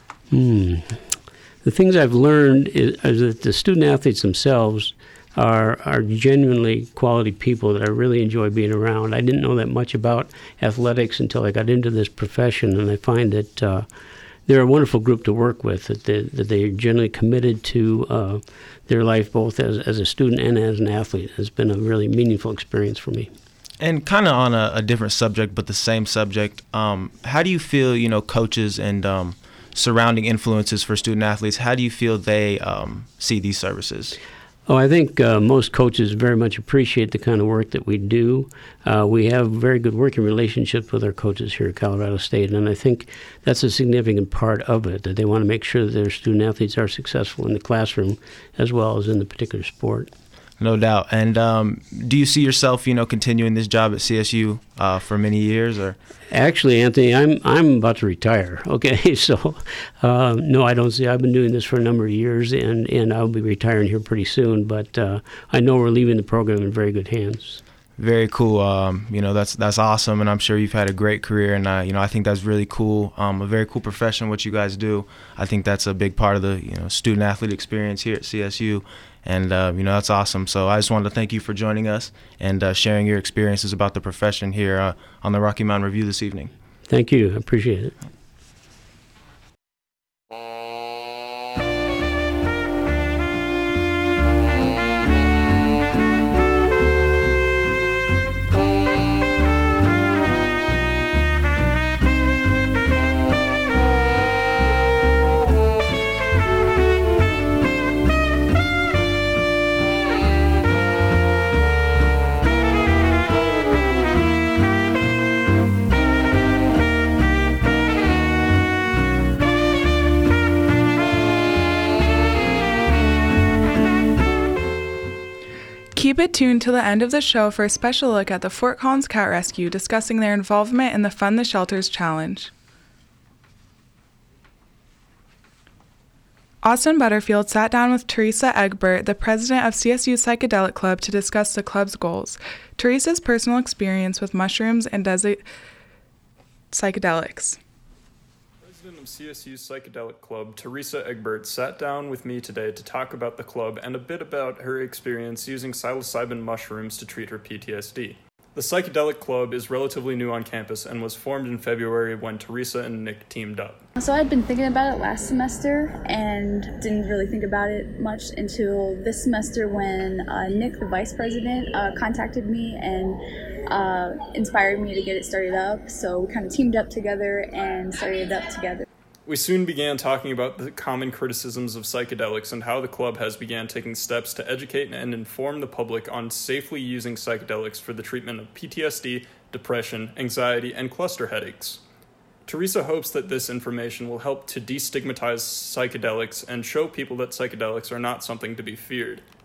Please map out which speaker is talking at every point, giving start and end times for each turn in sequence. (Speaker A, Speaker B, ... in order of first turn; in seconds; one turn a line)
Speaker A: 0.3-13.9
Speaker A: 14.5-23.3
Speaker B: 23.8-34.2
Speaker A: 34.7-50.1
Speaker B: 50.6-56.0
Speaker A: 56.3-67.6
Speaker B: 68.0-86.5
Speaker A: 86.9-88.0
Speaker C: 125.9-132.5
Speaker C: 136.6-145.4
Speaker C: 146.7-147.6
Speaker D: 148.6-163.8
Speaker E: 164.0-173.2
Speaker E: 173.7-178.9
Speaker D: 179.3-191.8
Speaker D: 192.5-199.2